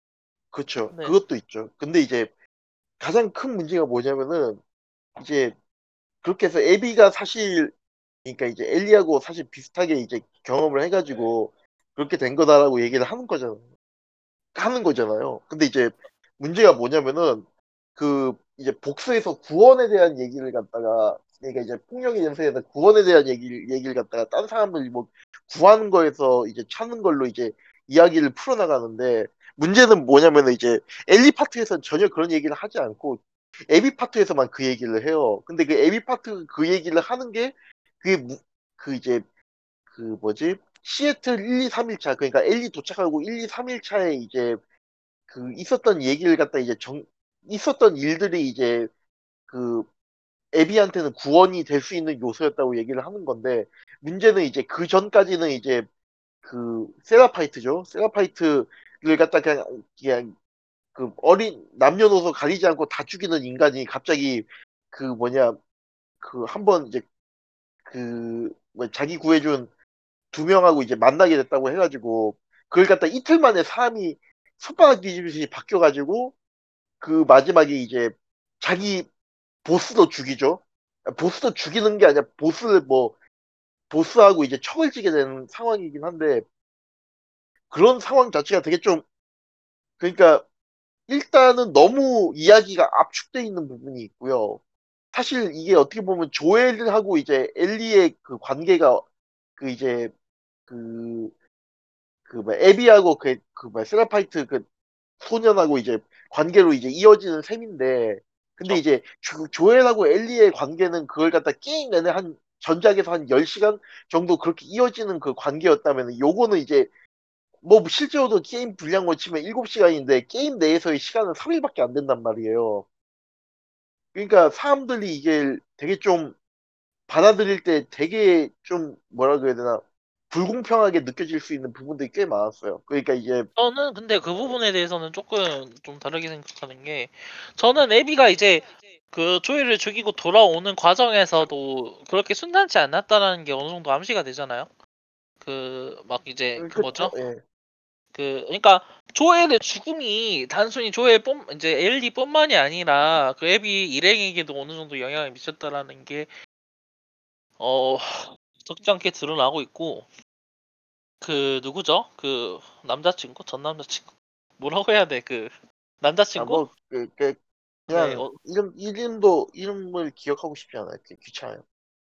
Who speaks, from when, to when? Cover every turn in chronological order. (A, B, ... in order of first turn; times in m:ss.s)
0:00.5-0:02.3 A
0:00.9-0:01.2 B
0:03.0-0:04.6 A
0:05.2-0:05.6 A
0:06.2-0:13.6 A
0:14.6-0:17.5 A
0:18.0-0:39.2 A
0:39.9-0:44.6 A
0:45.3-0:48.9 A
0:49.5-0:49.9 A
0:50.5-0:55.9 A
0:56.4-1:00.4 A
1:01.0-1:05.6 A
1:06.2-1:07.0 A
1:07.9-1:09.7 A
1:10.3-1:16.4 A
1:17.0-1:19.1 A
1:19.6-1:23.2 A
1:23.9-1:26.5 A
1:27.7-1:29.0 A
1:30.0-1:30.4 A
1:31.1-1:34.6 A
1:35.1-1:39.0 A
1:39.6-1:40.1 A
1:40.7-1:41.3 A
1:42.3-1:44.6 A
1:45.2-1:56.9 A
1:57.6-2:02.9 A
2:04.1-2:06.4 A
2:07.1-2:13.5 A
2:13.6-2:24.7 B
2:25.4-2:27.2 B
2:26.6-2:27.4 A
2:28.1-2:36.3 B
2:37.6-2:40.1 B
2:41.2-2:46.6 B
2:46.4-2:47.4 A
2:47.9-2:48.4 B
2:47.9-2:51.6 A